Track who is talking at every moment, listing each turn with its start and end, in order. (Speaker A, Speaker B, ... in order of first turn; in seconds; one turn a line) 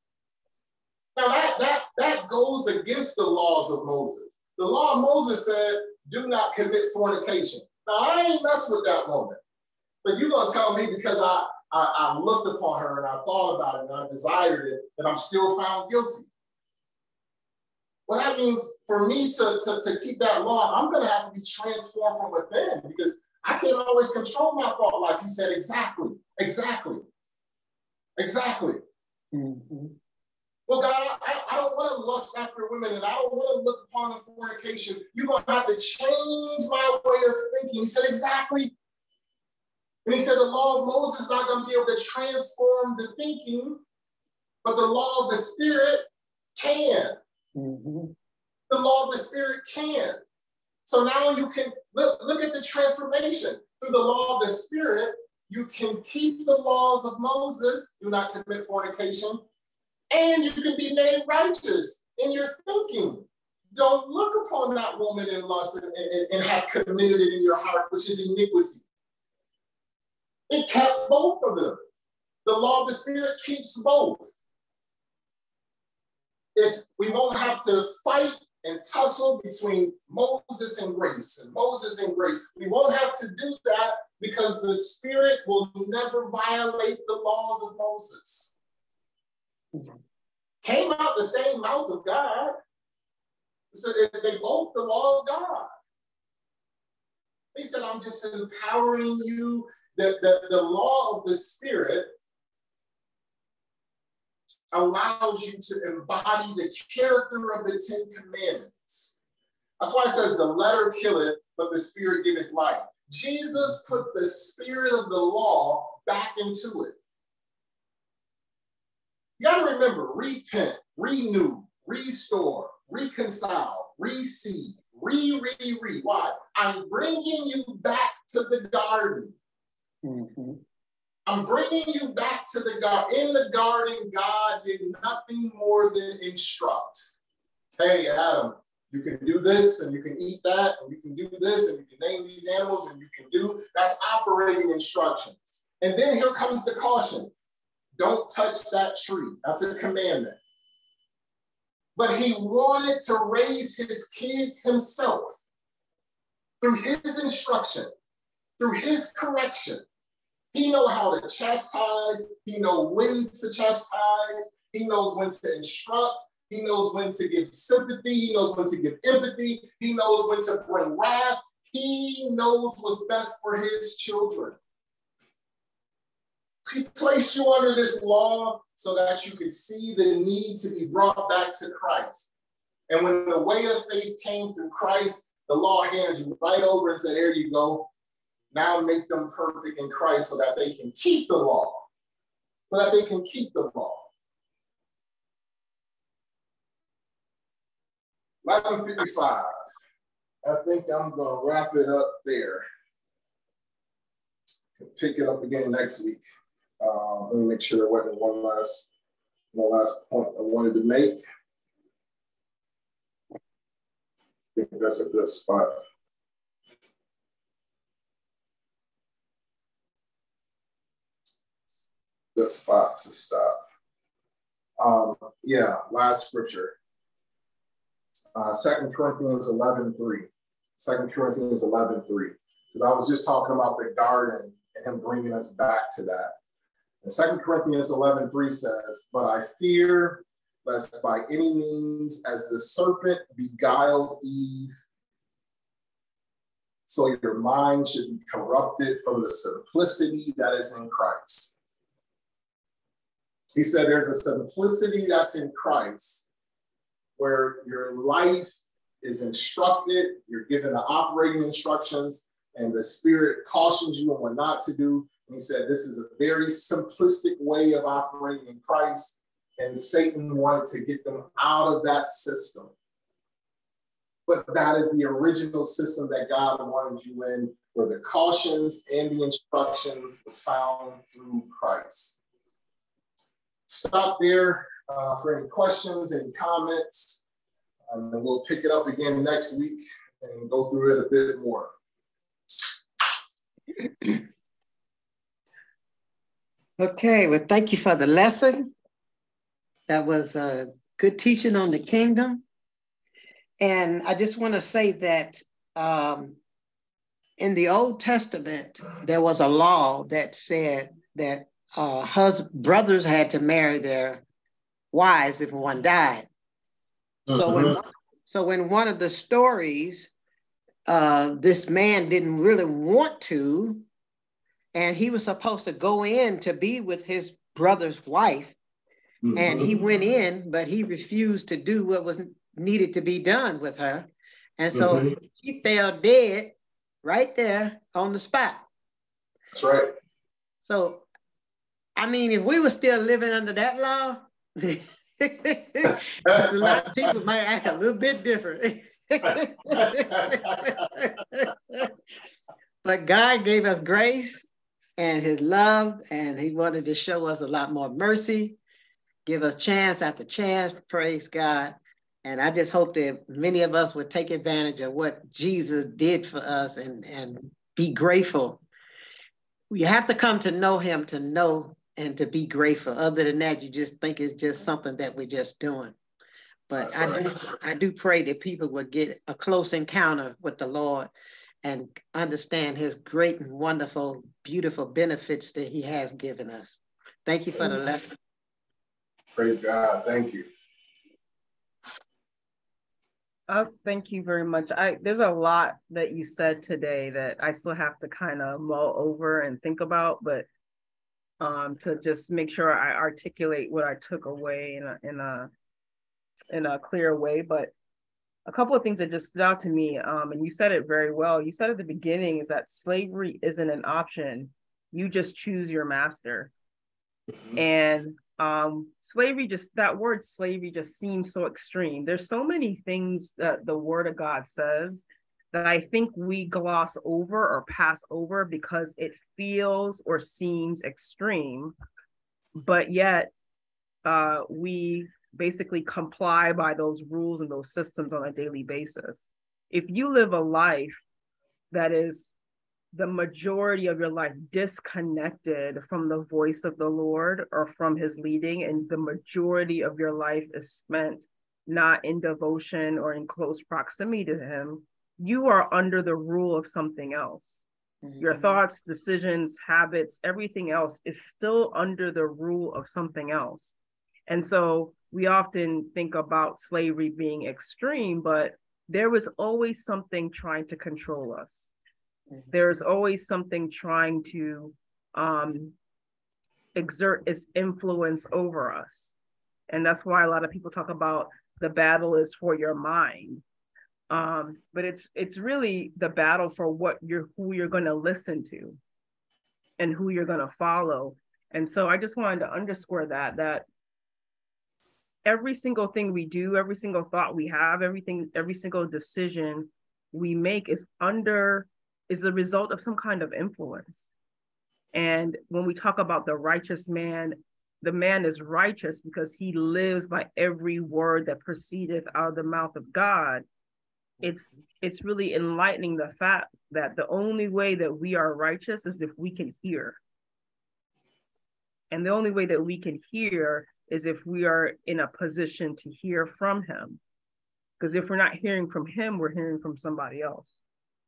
Speaker A: 1.1-9.4
Speaker A: 10.0-16.3
Speaker A: 18.1-27.1
Speaker A: 28.2-28.8
Speaker B: 29.3-29.9
Speaker A: 30.7-38.7
Speaker A: 40.0-43.8
Speaker A: 44.6-46.1
Speaker A: 46.6-47.2
Speaker B: 47.5-48.1
Speaker A: 48.7-50.2
Speaker A: 50.9-59.4
Speaker A: 60.1-63.2
Speaker A: 63.8-68.8
Speaker A: 70.5-71.8
Speaker A: 72.4-74.3
Speaker A: 76.6-88.5
Speaker B: 89.7-90.0
Speaker A: 90.6-92.6
Speaker A: 93.7-95.7
Speaker A: 97.5-102.1
Speaker A: 104.7-109.2
Speaker A: 109.8-117.0
Speaker A: 119.4-129.3
Speaker B: 130.0-130.6
Speaker A: 131.3-137.1
Speaker A: 137.8-147.3
Speaker A: 148.0-150.4
Speaker A: 151.9-155.4
Speaker A: 156.6-157.9
Speaker A: 158.6-159.8
Speaker A: 160.5-174.6
Speaker A: 176.7-182.3
Speaker A: 182.9-187.9
Speaker A: 188.5-191.8
Speaker A: 192.7-194.1
Speaker A: 198.4-199.5
Speaker A: 200.4-202.7
Speaker A: 204.8-206.2
Speaker A: 206.8-208.9
Speaker A: 209.5-211.2
Speaker A: 214.6-215.8
Speaker A: 222.3-223.6
Speaker A: 224.8-226.8
Speaker A: 228.3-236.3
Speaker A: 237.0-244.8
Speaker A: 246.9-251.6
Speaker A: 253.6-256.3
Speaker A: 257.2-272.7
Speaker A: 274.3-282.2
Speaker A: 283.7-287.2
Speaker A: 287.9-291.7
Speaker B: 296.8-298.7
Speaker B: 299.9-302.4
Speaker B: 303.6-306.4
Speaker B: 307.4-314.2
Speaker B: 314.9-316.3
Speaker A: 317.3-317.7
Speaker B: 317.3-320.1
Speaker B: 320.9-323.9
Speaker B: 324.7-328.6
Speaker A: 329.2-329.8
Speaker B: 329.4-338.6
Speaker A: 334.7-335.1
Speaker A: 339.5-339.9
Speaker B: 340.6-341.1
Speaker B: 342.0-351.9
Speaker A: 346.3-347.1
Speaker A: 349.8-350.5
Speaker B: 352.8-354.4
Speaker B: 355.0-358.6
Speaker B: 359.3-368.6
Speaker B: 369.7-375.9
Speaker B: 376.7-381.1
Speaker A: 376.8-377.3
Speaker B: 381.6-388.1
Speaker A: 389.4-390.5
Speaker C: 393.5-400.4
Speaker C: 401.4-405.5
Speaker C: 406.5-407.7
Speaker C: 408.4-416.5
Speaker C: 417.6-431.7
Speaker C: 432.6-433.3
Speaker C: 434.1-441.0
Speaker C: 441.7-442.4
Speaker C: 442.9-457.6
Speaker B: 458.0-458.6
Speaker C: 458.2-463.7
Speaker C: 464.3-471.7
Speaker C: 472.5-475.7
Speaker C: 476.7-479.1
Speaker C: 479.7-483.4
Speaker C: 484.1-488.8
Speaker C: 489.8-493.6
Speaker C: 495.2-504.1
Speaker C: 504.9-513.4
Speaker C: 514.2-520.0
Speaker C: 521.9-527.0
Speaker C: 527.8-530.6